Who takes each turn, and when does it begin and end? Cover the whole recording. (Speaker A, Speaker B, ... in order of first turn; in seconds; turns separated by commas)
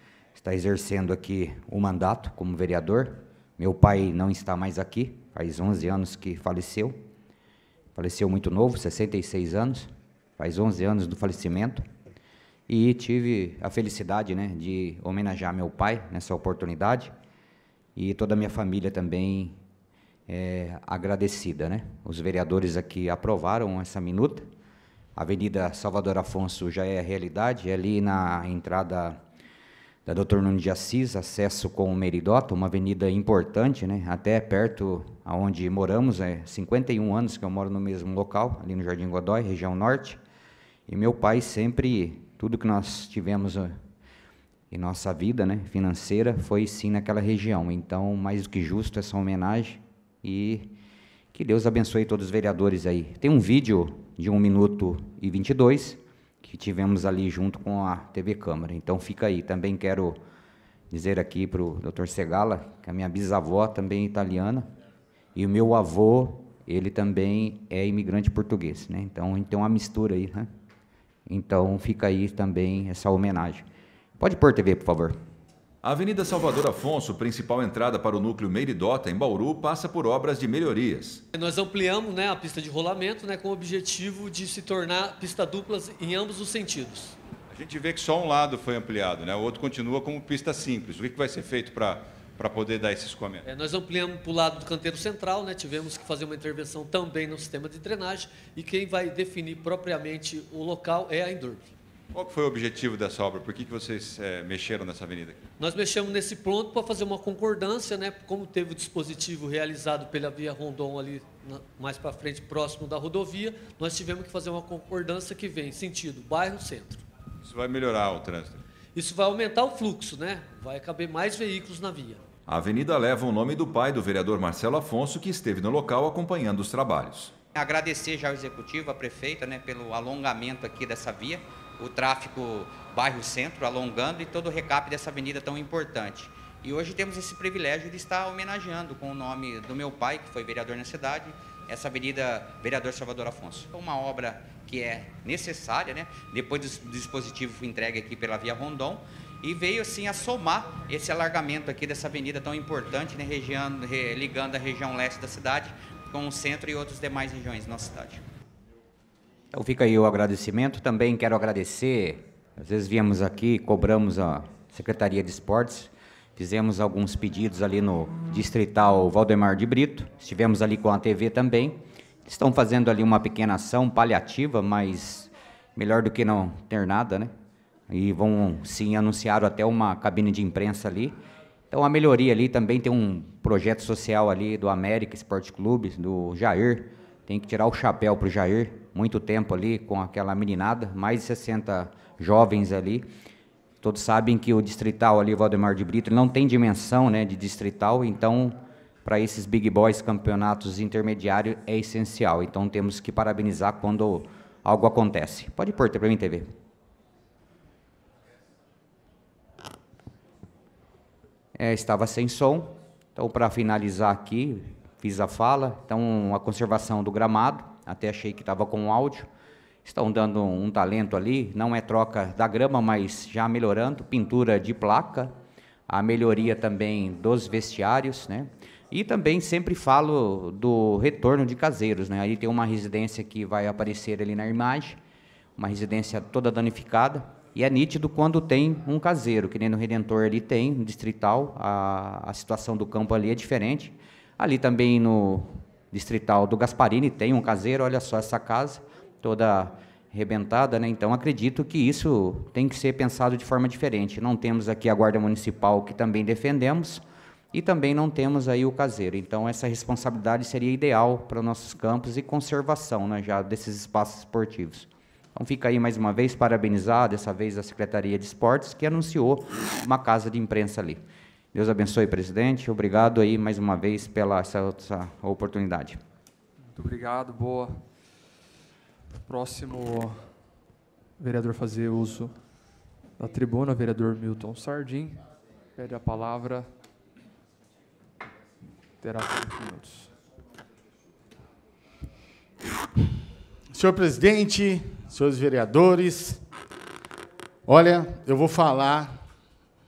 Speaker A: 0.3-7.0, Speaker A: 8.0-11.8, Speaker A: 12.7-17.1, Speaker A: 17.9-19.6, Speaker A: 20.3-24.5, Speaker A: 25.1-29.2, Speaker A: 30.1-40.2, Speaker A: 40.9-43.8, Speaker A: 44.7-50.7, Speaker A: 51.3-60.2, Speaker A: 60.9-64.7, Speaker A: 65.3-70.5, Speaker A: 71.3-73.6, Speaker A: 74.2-75.2, Speaker B: 75.8-81.2, Speaker C: 81.3-87.2, Speaker D: 87.5-93.5, Speaker C: 93.5-101.7, Speaker D: 102.1-105.5, Speaker C: 105.6-117.0, Speaker D: 117.4-118.6, Speaker C: 118.9-122.2, Speaker B: 122.5-127.3, Speaker A: 127.5-158.2, Speaker A: 159.5-177.3, Speaker A: 177.9-181.1, Speaker A: 181.7-193.1, Speaker A: 193.8-206.5, Speaker A: 211.5-219.3, Speaker A: 219.8-225.3, Speaker A: 225.9-235.0, Speaker A: 235.6-257.0, Speaker A: 257.5-271.0, Speaker A: 271.5-276.0, Speaker E: 276.7-277.8, Speaker E: 279.3-280.3, Speaker E: 281.2-282.3, Speaker E: 283.2-285.2, Speaker E: 285.8-286.7, Speaker E: 289.0-290.1, Speaker F: 293.7-296.4, Speaker F: 297.6-299.2